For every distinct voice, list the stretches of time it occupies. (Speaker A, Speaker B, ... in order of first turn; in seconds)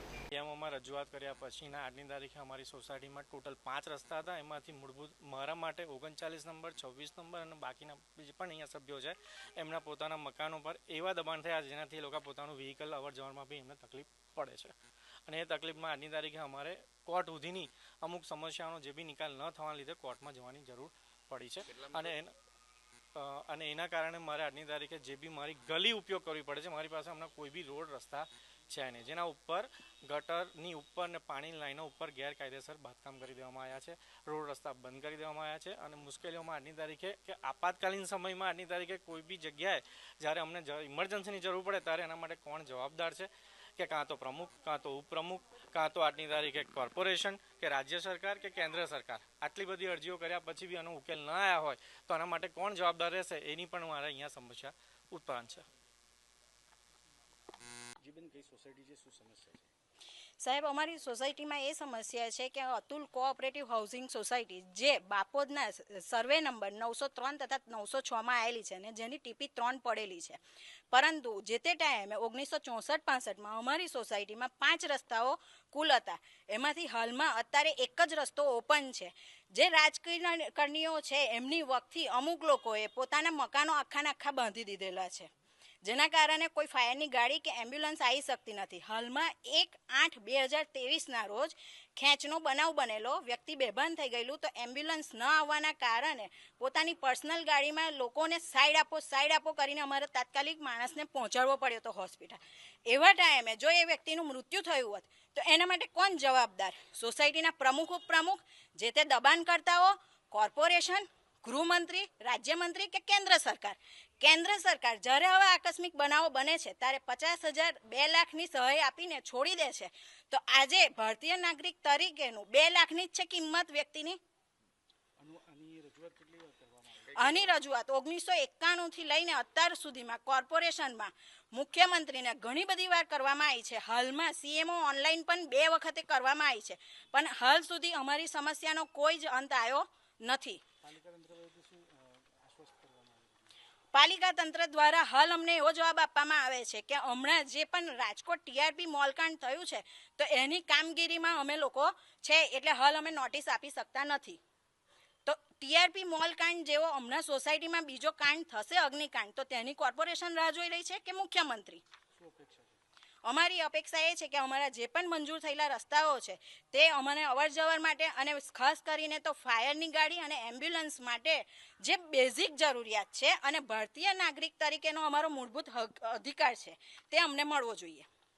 Speaker A: 0.3-14.7, 15.3-22.3, 23.1-55.6
Speaker B: 58.0-59.7, 125.2-127.6, 140.8-143.5, 162.2-162.8
Speaker C: 60.4-70.4, 70.9-85.3, 85.8-124.2, 127.2-140.6, 143.9-154.4, 155.2-161.8, 163.2-178.1